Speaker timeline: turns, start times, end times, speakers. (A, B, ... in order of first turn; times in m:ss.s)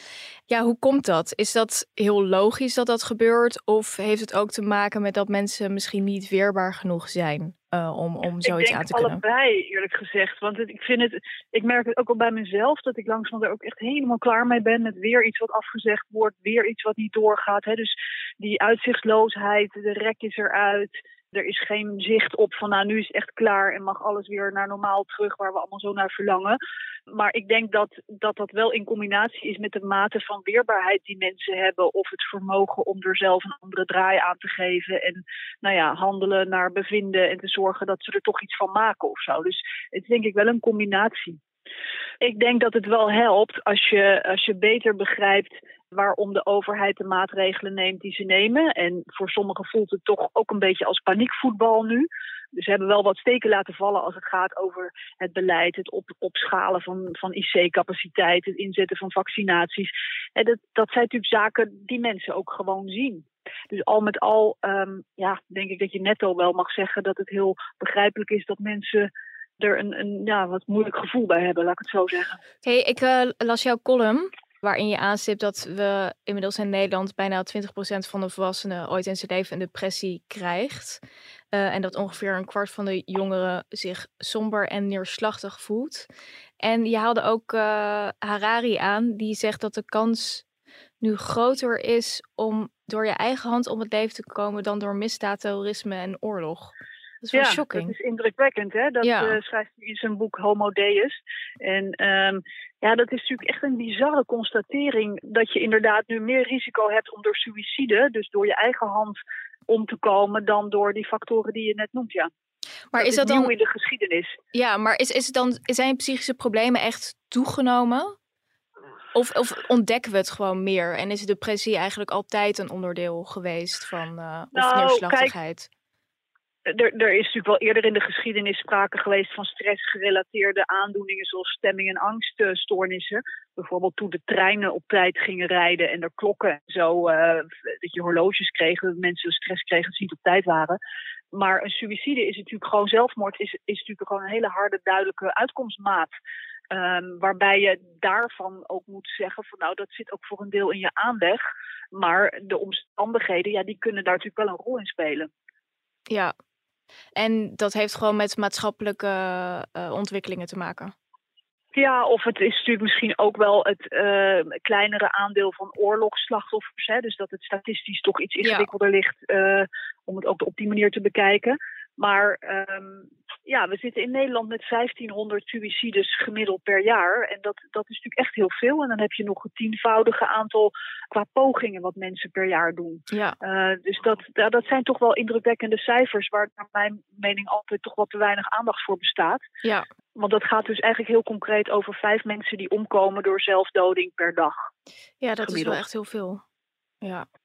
0:00.5-0:09.2 A
0:08.4-0:26.6 B
0:27.2-0:41.4 B
0:42.2-1:12.4 B
1:12.6-1:21.0 A
1:21.5-1:26.1 A
1:26.6-1:30.4 A
1:31.0-1:37.9 A
1:37.3-1:49.2 B
1:39.0-1:39.4 A
1:49.7-1:52.3 B
1:52.9-1:53.5 A
1:53.0-1:54.4 B
1:54.5-1:58.2 A
1:59.1-2:05.7 A
2:04.5-2:05.3 B
2:06.7-2:20.8 B
2:21.3-2:26.1 B
2:26.7-2:31.4 B
2:31.9-2:35.3 B
2:37.2-2:41.0 A
2:41.7-3:09.4 B
2:48.4-2:48.7 A
3:03.1-3:03.4 A
3:10.2-3:14.6 B
3:15.2-3:16.4 A
3:15.5-3:15.8 B